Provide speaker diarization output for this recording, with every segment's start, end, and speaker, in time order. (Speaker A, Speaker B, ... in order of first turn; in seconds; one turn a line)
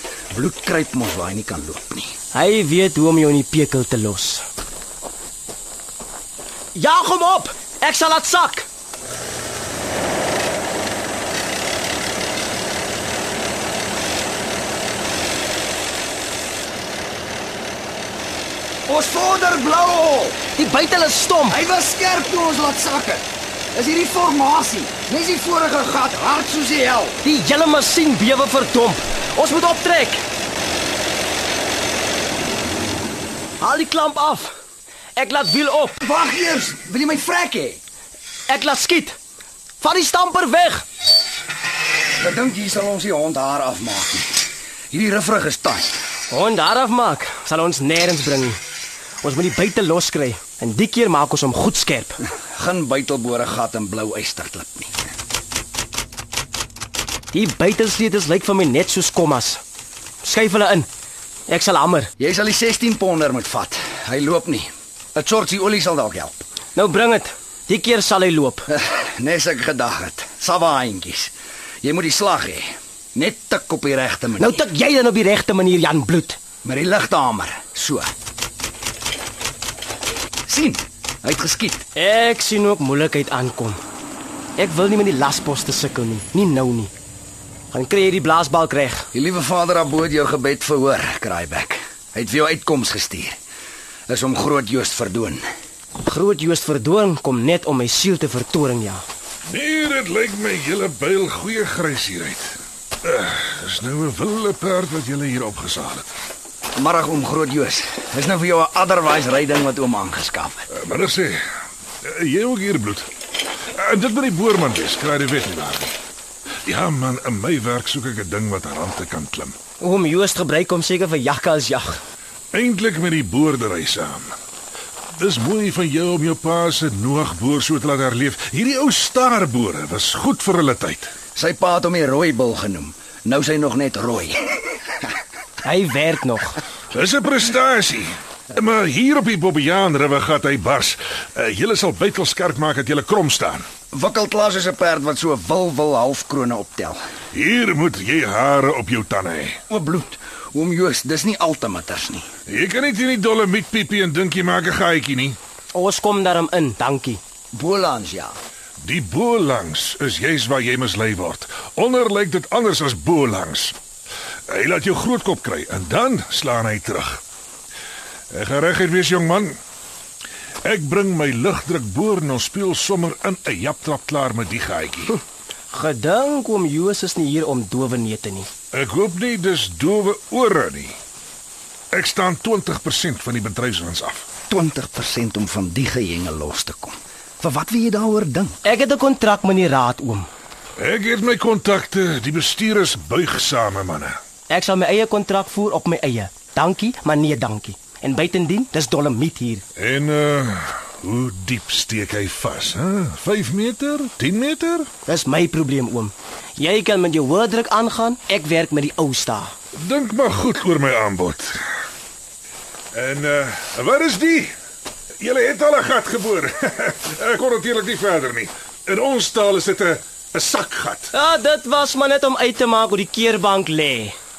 Speaker A: 0.3-2.1
Speaker B: 2.3-4.5
Speaker B: 6.8-8.7
Speaker A: 18.9-20.4
Speaker B: 20.5-21.6
Speaker A: 21.5-27.2
Speaker B: 27.2-30.2
Speaker B: 33.6-34.5
Speaker B: 35.2-36.0
Speaker A: 36.0-37.8
Speaker B: 38.5-39.2
Speaker B: 39.8-40.9
Speaker A: 42.2-45.9
Speaker B: 46.3-48.6
Speaker B: 49.2-52.2
Speaker A: 52.5-54.9
Speaker B: 57.3-59.6
Speaker B: 60.2-60.9
Speaker B: 61.5-62.1
Speaker A: 62.2-66.4
Speaker B: 66.8-68.7
Speaker A: 68.7-71.3
Speaker A: 71.8-74.6
Speaker B: 74.4-76.4
Speaker A: 76.6-78.1
Speaker A: 80.5-81.8
Speaker B: 82.0-83.8
Speaker B: 84.6-86.9
Speaker B: 87.7-89.1
Speaker A: 89.1-93.4
Speaker A: 94.1-95.4
Speaker B: 96.0-99.0
Speaker C: 99.5-106.1
Speaker A: 106.8-110.7
Speaker C: 110.7-111.5
Speaker C: 112.0-113.1
Speaker C: 113.8-115.9
Speaker C: 116.7-119.5
Speaker B: 119.8-122.0
Speaker C: 122.5-124.3
Speaker C: 125.2-131.1
Speaker A: 131.4-134.6
Speaker B: 135.6-136.6
Speaker C: 136.9-143.7
Speaker A: 143.9-147.0
Speaker C: 147.3-149.6
Speaker A: 149.7-152.3
Speaker C: 152.5-155.4
Speaker B: 155.7-157.2
Speaker A: 157.5-158.4
Speaker C: 158.8-163.8
Speaker C: 164.5-167.2
Speaker C: 168.3-169.6
Speaker C: 170.7-175.2
Speaker B: 175.7-178.5
Speaker C: 178.7-181.0
Speaker C: 181.9-184.3
Speaker A: 184.5-188.6
Speaker B: 188.6-190.3
Speaker C: 190.8-194.2
Speaker B: 194.5-199.7
Speaker C: 199.8-204.9
Speaker B: 205.1-209.6
Speaker C: 209.8-211.6
Speaker C: 212.9-214.5
Speaker C: 215.2-221.1
Speaker B: 221.1-224.2